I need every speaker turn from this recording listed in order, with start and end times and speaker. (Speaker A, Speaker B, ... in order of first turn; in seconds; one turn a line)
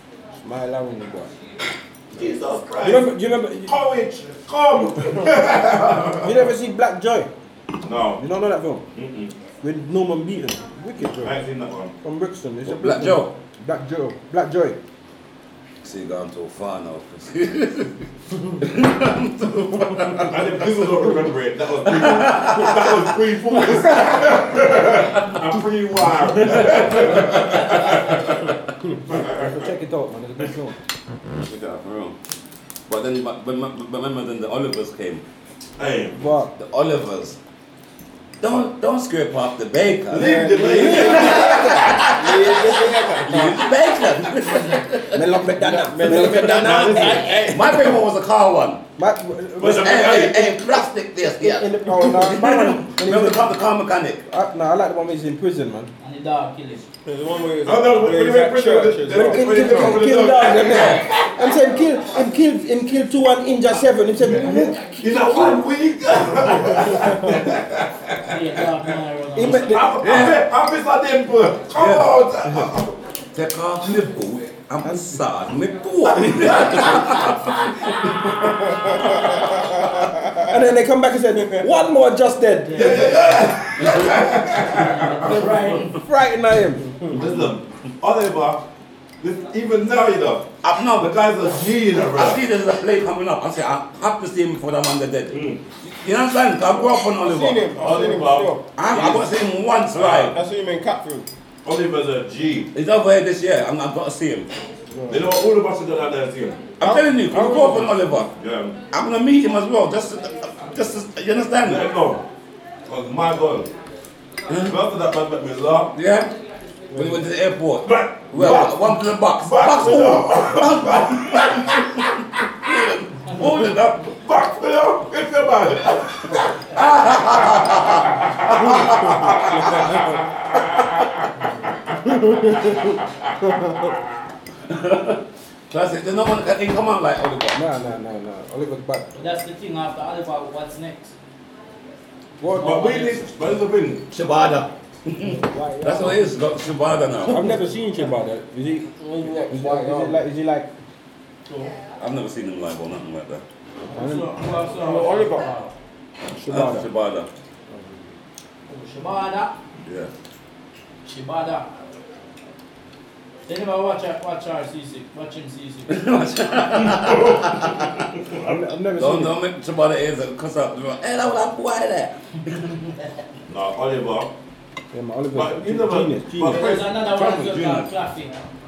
Speaker A: 0.4-1.3
Speaker B: 2.1-3.1
Speaker A: 2.8-3.7
Speaker B: 3.6-6.5
Speaker A: 6.2-7.3
Speaker B: 7.8-8.2
Speaker A: 8.2-8.8
Speaker B: 8.9-9.3
Speaker A: 9.6-11.4
Speaker B: 11.1-11.9
Speaker A: 12.0-14.8
Speaker C: 12.6-13.3
Speaker C: 15.8-20.6
Speaker B: 20.3-28.4
Speaker C: 21.9-23.0
Speaker C: 23.6-24.1
Speaker D: 27.5-28.1
Speaker B: 29.1-29.6
Speaker A: 29.2-30.8
Speaker C: 31.4-32.1
Speaker C: 32.9-35.2
Speaker B: 35.8-36.2
Speaker A: 36.1-36.5
Speaker C: 36.5-37.4
Speaker C: 38.4-45.4
Speaker B: 40.1-41.8
Speaker A: 40.2-41.9
Speaker E: 40.6-43.6
Speaker A: 45.1-47.4
Speaker E: 45.6-47.8
Speaker C: 46.0-48.8
Speaker B: 46.0-47.4
Speaker A: 49.0-50.3
Speaker B: 49.6-50.5
Speaker C: 49.6-54.2
Speaker A: 51.4-53.5
Speaker A: 54.3-55.9
Speaker D: 56.0-56.8
Speaker E: 57.0-59.6
Speaker B: 57.6-61.3
Speaker A: 59.1-65.6
Speaker C: 60.5-61.1
Speaker B: 64.2-68.3
Speaker D: 68.2-69.8
Speaker A: 69.3-70.0
Speaker B: 69.4-72.9
Speaker C: 70.0-70.4
Speaker C: 71.8-72.1
Speaker C: 73.3-77.6
Speaker A: 74.8-75.1
Speaker A: 80.3-83.4
Speaker D: 82.7-83.5
Speaker B: 82.7-85.4
Speaker C: 83.8-84.8
Speaker D: 84.5-86.0
Speaker A: 85.9-87.0
Speaker B: 87.1-88.6
Speaker B: 89.2-92.4
Speaker C: 90.6-91.1
Speaker C: 92.1-97.8
Speaker B: 95.3-95.6
Speaker E: 97.1-99.2
Speaker B: 97.8-99.3
Speaker C: 98.8-100.3
Speaker B: 99.9-100.3
Speaker E: 100.2-101.3
Speaker B: 101.6-102.7
Speaker C: 102.7-104.5
Speaker B: 105.1-106.7
Speaker C: 106.8-108.3
Speaker E: 106.8-107.9
Speaker B: 108.3-108.8
Speaker C: 108.9-111.9
Speaker B: 111.6-112.2
Speaker B: 112.9-113.7
Speaker C: 114.5-114.8
Speaker B: 114.7-115.9
Speaker C: 115.9-116.3
Speaker C: 116.9-122.1
Speaker B: 117.8-121.8
Speaker C: 122.6-123.8
Speaker B: 123.3-126.5
Speaker C: 126.7-130.1
Speaker B: 127.3-131.2
Speaker B: 132.1-133.2
Speaker C: 134.7-137.6
Speaker A: 137.5-139.2
Speaker D: 139.2-141.1
Speaker A: 142.4-142.8
Speaker D: 142.5-143.2
Speaker B: 142.6-144.1
Speaker C: 144.1-147.6
Speaker A: 145.2-146.3
Speaker A: 147.2-150.7
Speaker E: 149.0-150.2
Speaker D: 151.4-151.7
Speaker C: 152.0-153.4
Speaker D: 153.9-155.7
Speaker A: 153.9-154.3
Speaker E: 154.7-155.5
Speaker A: 156.3-156.9
Speaker C: 156.5-157.3
Speaker D: 158.7-159.5
Speaker C: 159.8-160.1
Speaker D: 161.0-161.7
Speaker D: 163.4-166.0
Speaker C: 165.9-168.1
Speaker B: 167.0-167.4
Speaker A: 168.4-169.3
Speaker C: 168.9-172.8
Speaker B: 173.5-174.3
Speaker A: 174.9-176.8
Speaker B: 175.3-177.0
Speaker D: 176.4-178.4
Speaker C: 177.0-177.9